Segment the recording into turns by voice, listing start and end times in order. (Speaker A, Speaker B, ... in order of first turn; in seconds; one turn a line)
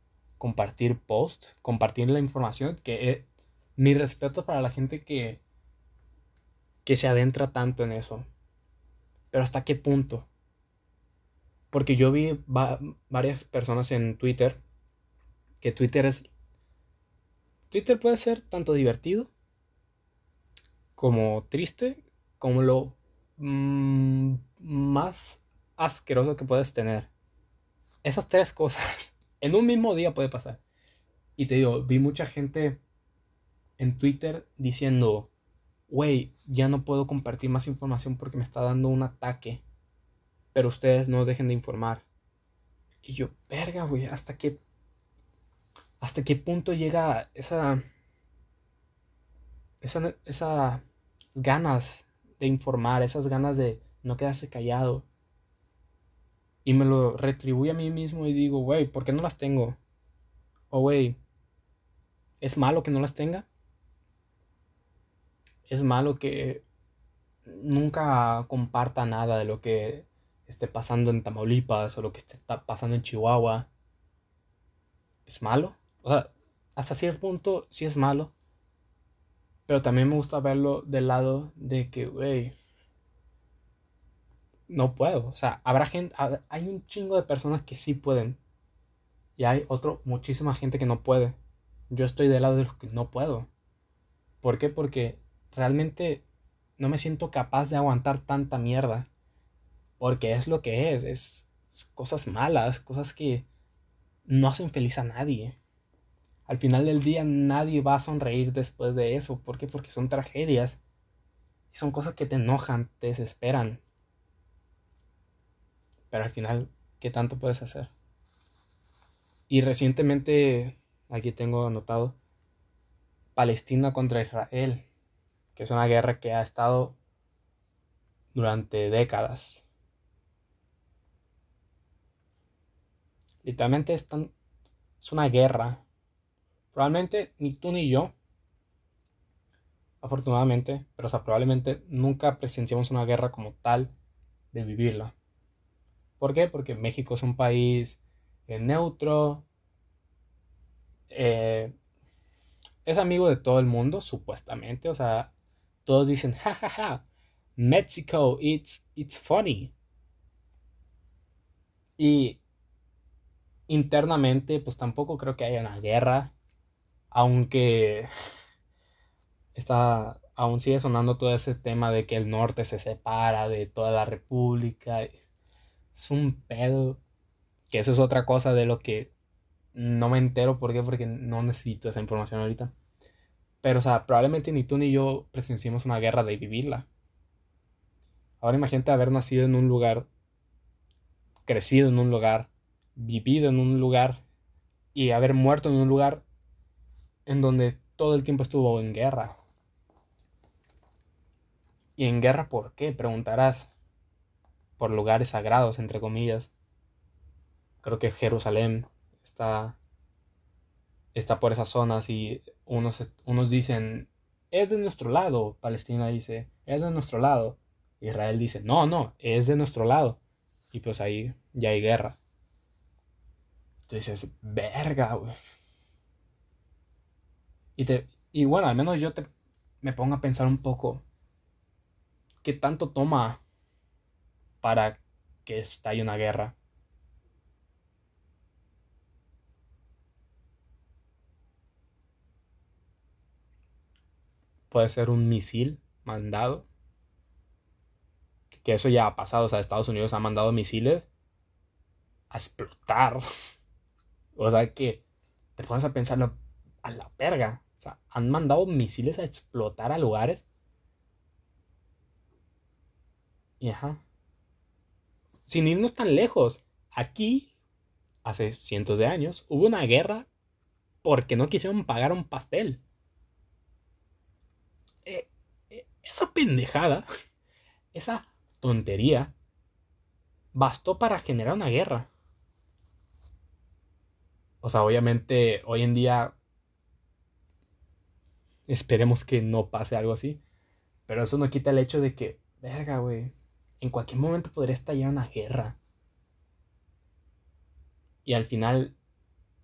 Speaker A: 0.4-5.4
Speaker A: 6.8-8.2
Speaker A: 9.3-10.3
Speaker A: 11.7-14.6
Speaker A: 15.6-16.3
Speaker A: 17.7-19.3
Speaker A: 21.0-27.1
Speaker A: 28.0-30.6
Speaker A: 31.4-32.8
Speaker A: 33.8-35.3
Speaker A: 35.9-39.6
Speaker A: 40.5-42.1
Speaker A: 43.0-44.6
Speaker A: 46.0-47.8
Speaker A: 49.8-50.8
Speaker A: 51.4-55.1
Speaker A: 56.6-59.8
Speaker A: 60.7-61.2
Speaker A: 62.4-63.5
Speaker A: 65.7-66.6
Speaker A: 67.5-73.7
Speaker A: 75.3-78.3
Speaker A: 79.7-82.5
Speaker A: 84.7-88.4
Speaker A: 89.4-91.4
Speaker A: 91.9-93.5
Speaker A: 94.4-96.2
Speaker A: 96.8-99.1
Speaker A: 100.0-103.5
Speaker A: 104.3-105.6
Speaker A: 106.5-110.8
Speaker A: 111.7-113.8
Speaker A: 116.1-117.9
Speaker A: 119.5-122.2
Speaker A: 123.3-124.9
Speaker A: 125.5-127.0
Speaker A: 128.3-129.6
Speaker A: 133.4-134.3
Speaker A: 135.0-135.8
Speaker A: 136.7-138.1
Speaker A: 140.0-143.9
Speaker A: 144.5-145.2
Speaker A: 146.2-149.4
Speaker A: 151.1-151.7
Speaker A: 152.8-155.3
Speaker A: 155.8-157.0
Speaker A: 157.6-159.7
Speaker A: 162.0-162.4
Speaker A: 163.7-166.3
Speaker A: 167.1-168.1
Speaker A: 169.6-175.1
Speaker A: 175.9-177.0
Speaker A: 177.7-179.1
Speaker A: 179.7-182.7
Speaker A: 183.6-186.9
Speaker A: 188.4-190.1
Speaker A: 191.5-194.2
Speaker A: 194.9-196.2
Speaker A: 197.3-199.4
Speaker A: 202.0-203.7
Speaker A: 204.8-206.5
Speaker A: 207.8-209.8
Speaker A: 211.1-220.2
Speaker A: 220.7-222.2
Speaker A: 223.9-225.3
Speaker A: 227.8-229.3
Speaker A: 229.8-231.0
Speaker A: 232.4-233.4
Speaker A: 234.6-236.6
Speaker A: 244.7-246.7
Speaker A: 248.5-251.1
Speaker A: 252.3-253.2
Speaker A: 254.4-255.0
Speaker A: 255.6-260.4
Speaker A: 263.6-264.0
Speaker A: 265.5-267.5
Speaker A: 268.2-270.3
Speaker A: 271.0-272.8
Speaker A: 275.1-277.1
Speaker A: 277.9-279.3
Speaker A: 280.5-282.1
Speaker A: 284.6-286.4
Speaker A: 288.7-290.4
Speaker A: 291.1-295.8
Speaker A: 298.2-299.0